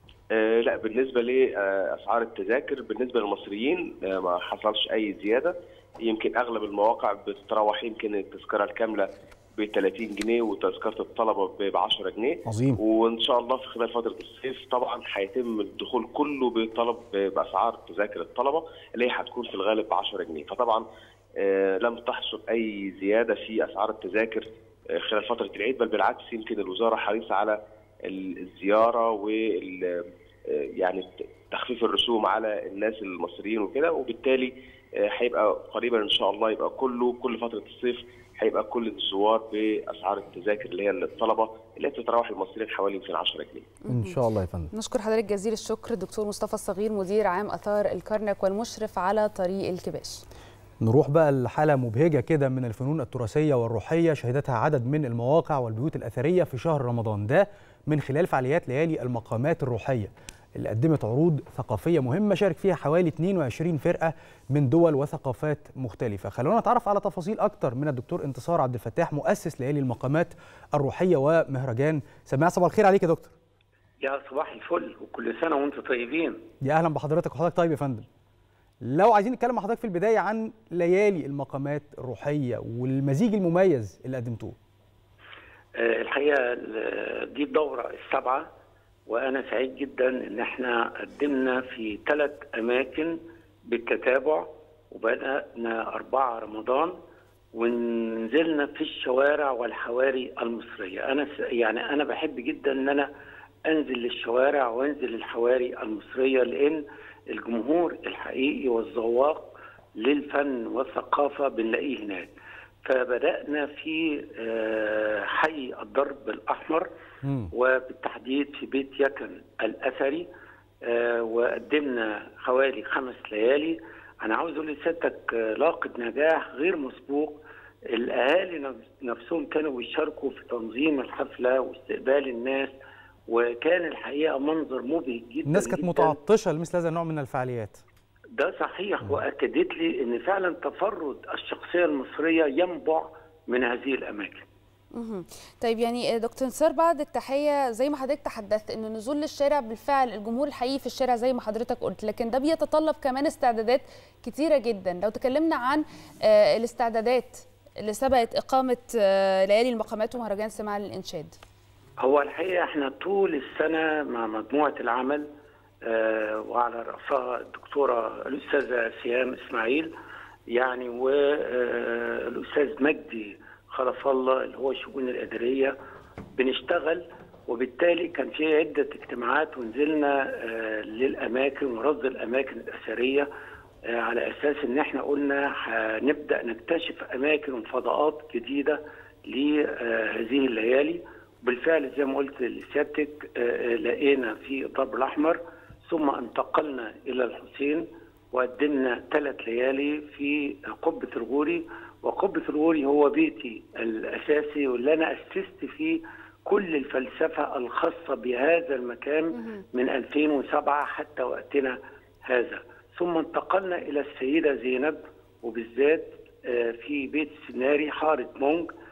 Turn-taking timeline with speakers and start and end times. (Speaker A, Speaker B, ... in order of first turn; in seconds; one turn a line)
Speaker A: 0.3-20.8
Speaker B: 12.5-12.8
Speaker A: 21.4-43.7
Speaker C: 43.9-44.2
Speaker B: 43.9-44.7
Speaker C: 44.7-50.2
Speaker B: 50.8-73.3
Speaker D: 74.0-76.5
Speaker B: 76.6-78.1
Speaker B: 78.8-84.6
Speaker D: 85.8-88.5
Speaker D: 89.1-97.0
Speaker D: 97.5-103.1
Speaker D: 103.7-106.8
Speaker D: 107.3-112.3
Speaker D: 112.8-116.9
Speaker B: 117.2-117.5
Speaker D: 117.5-120.3
Speaker D: 120.9-127.4
Speaker D: 127.9-132.7
Speaker D: 133.3-136.2
Speaker B: 135.5-137.8
Speaker D: 138.3-144.5
Speaker C: 144.9-161.3
Speaker D: 162.0-165.3
Speaker D: 165.8-169.9
Speaker D: 170.5-175.8
Speaker D: 176.4-183.3
Speaker D: 183.9-218.7
Speaker C: 209.4-209.6